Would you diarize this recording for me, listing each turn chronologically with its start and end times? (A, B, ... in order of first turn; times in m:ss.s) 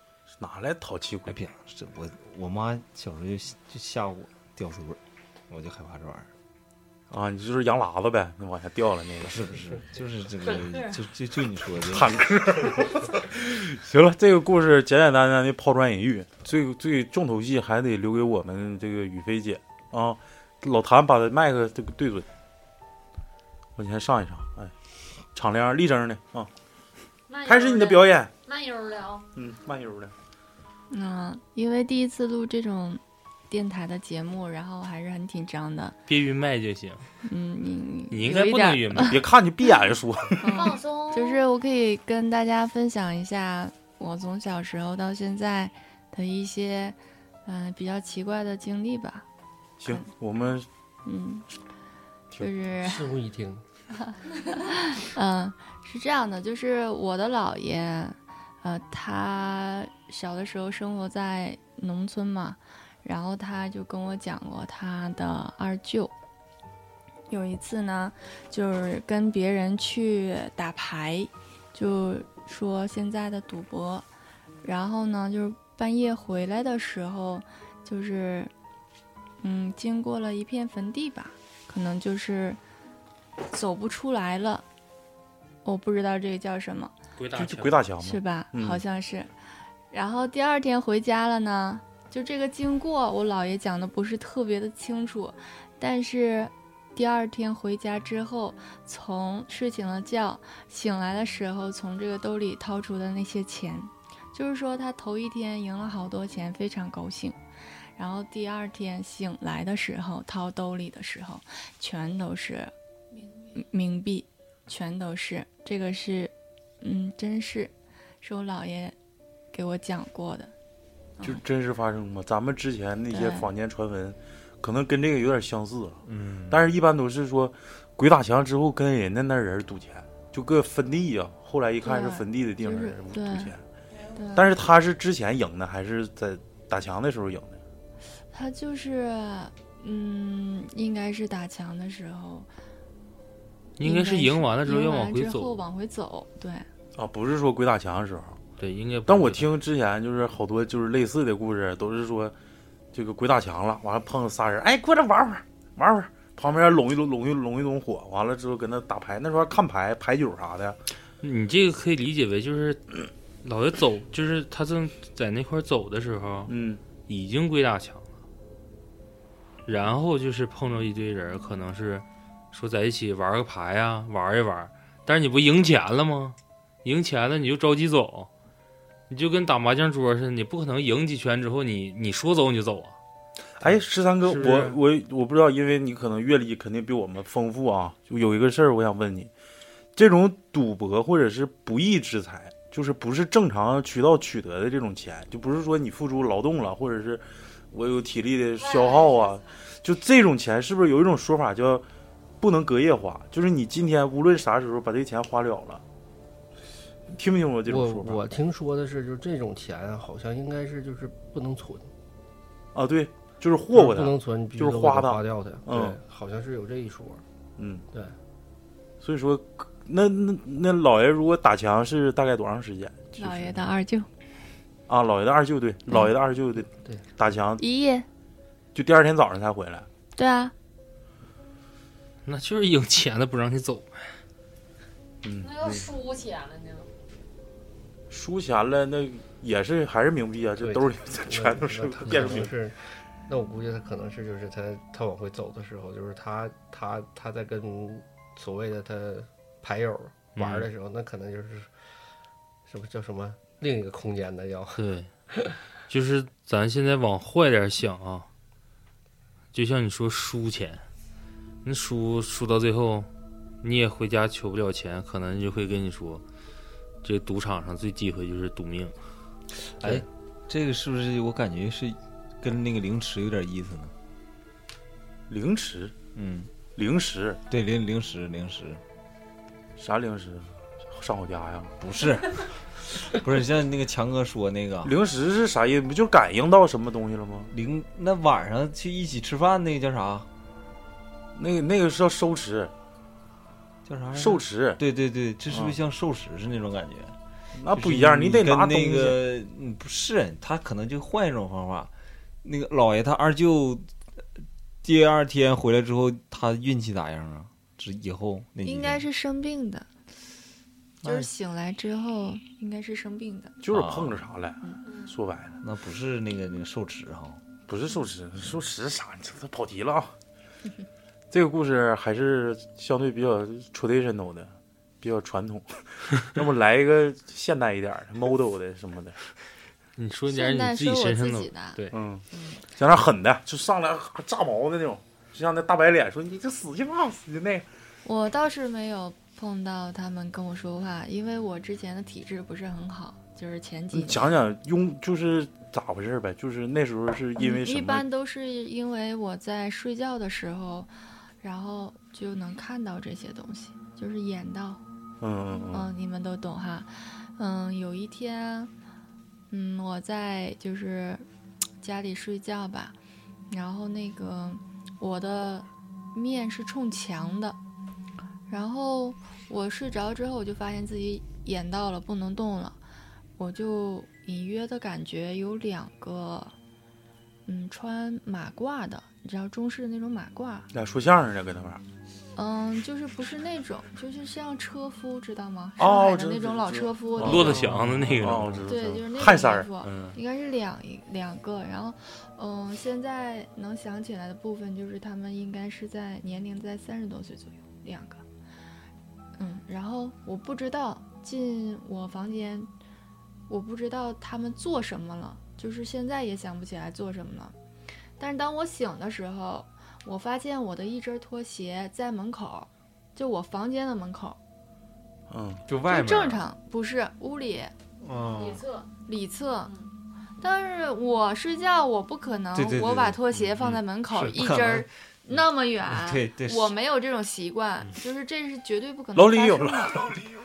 0:00.4-0:01.4 A
0:01.2-0:06.3 B
0:07.1-0:09.4 A
0:09.2-0:12.1 B
0:11.8-0:22.2 A
0:23.8-0:24.7 A
0:25.3-0:26.5 A
0:27.3-0:29.3 C
0:27.4-0:28.3 A
0:29.4-0:30.1 A
0:30.9-0:36.0 D
0:36.1-0:37.1 E
0:37.2-0:39.2 D
0:38.1-0:39.2 E
0:39.0-0:40.5 A
0:40.4-0:49.2 D
0:40.4-0:41.4 C
0:49.8-0:50.7 A
0:51.0-0:51.5 D
0:52.4-0:53.1 D
0:52.8-0:53.6 F
0:54.5-1:06.1 D
1:07.3-1:14.1 D
1:14.6-1:18.5 D
1:19.4-1:22.6 D
1:23.5-1:24.6 D
1:25.6-1:26.9 D
1:27.2-1:27.8 E
1:27.3-1:28.8 A
1:28.0-1:29.3 D
1:29.9-1:47.4 D
1:48.0-1:52.7 D
1:53.1-1:53.6 C
1:53.6-1:58.9 D
1:59.5-2:00.5 D
2:01.2-2:13.6 A
2:03.1-2:03.5 D
2:06.0-2:06.7 B
2:11.8-2:13.5 D
2:14.1-2:14.5 D
2:14.3-2:17.6 A
2:18.3-2:22.5 D
2:23.8-2:25.5 E
2:23.8-2:26.7 D
2:27.0-2:28.4 A
2:28.6-2:29.5 E
2:29.1-2:32.3 A
2:32.9-2:40.8 A
2:41.2-2:42.9 E
2:43.4-2:46.5 E
2:46.5-2:46.8 A
2:47.1-2:48.2 E
2:49.6-2:58.3 E
2:59.1-3:03.0 E
3:03.6-3:09.3 A
3:04.2-3:04.8 E
3:10.0-3:21.8 A
3:18.6-3:19.6 C
3:22.4-3:25.8 A
3:27.1-3:28.2 A
3:27.6-3:31.9 F
3:32.7-3:36.0 A
3:33.7-3:37.2 F
3:37.6-3:37.9 A
3:39.0-3:43.6 A
3:43.2-3:44.1 D
3:44.9-3:47.6 A
3:46.8-3:47.0 F
3:47.6-3:48.1 D
3:48.7-3:49.9 A
3:50.2-3:50.5 D
3:52.2-3:54.2 E
3:55.2-3:55.7 A
3:55.4-3:56.9 C
3:58.1-4:02.5 A
4:00.6-4:11.7 F
4:10.4-4:10.7 E
4:12.7-4:15.6 F
4:14.8-4:15.1 E
4:15.9-4:18.3 E
4:19.5-4:20.8 E
4:21.6-4:23.1 E
4:23.6-4:26.2 E
4:27.0-4:28.9 E
4:29.8-4:33.9 B
4:35.3-4:35.9 A
4:36.1-4:36.5 B
4:36.8-4:37.4 A
4:37.5-4:38.8 B
4:39.8-4:41.7 A
4:41.8-4:44.9 B
4:44.8-4:47.5 A
4:47.5-4:50.3 B
4:51.3-4:52.7 A
4:53.8-4:57.2 B
4:54.1-4:54.8 A
4:55.5-4:55.8 A
4:57.6-4:59.2 A
4:57.7-5:01.9 B
5:02.4-5:03.9 B
5:04.8-5:09.0 B
5:08.6-5:09.9 D
5:11.0-5:11.3 B
5:11.0-5:13.6 D
5:13.6-5:15.6 A
5:13.7-5:14.2 B
5:14.8-5:15.1 C
5:15.6-5:17.4 B
5:17.7-5:20.1 A
5:21.3-5:29.2 A
5:30.0-5:32.0 E
5:30.3-5:31.8 D
5:31.9-5:37.6 A
5:32.3-5:32.6 D
5:38.0-5:44.3 D
5:43.9-5:48.0 A
5:47.4-5:50.9 D
5:51.4-5:54.8 D
5:55.2-5:55.9 A
5:55.7-5:58.7 D
5:59.5-6:01.2 D
6:01.8-6:03.0 D
6:03.5-6:07.6 D
6:08.5-6:12.8 D
6:13.4-6:16.5 D
6:17.4-6:20.7 D
6:20.7-6:21.8 A
6:22.4-6:27.6 D
6:25.8-6:29.7 A
6:27.2-6:28.6 E
6:27.2-6:28.5 B
6:28.6-6:38.2 D
6:29.8-6:30.2 E
6:39.4-6:42.7 D
6:43.5-6:47.5 D
6:48.2-6:54.4 D
6:55.3-6:55.6 A
6:55.7-6:56.4 B
6:55.8-6:57.7 D
6:58.0-6:58.6 B
6:58.2-6:58.9 C
6:59.0-6:59.7 D
6:59.6-6:59.9 C
7:00.4-7:10.0 D
7:02.5-7:06.7 B
7:09.1-7:10.2 A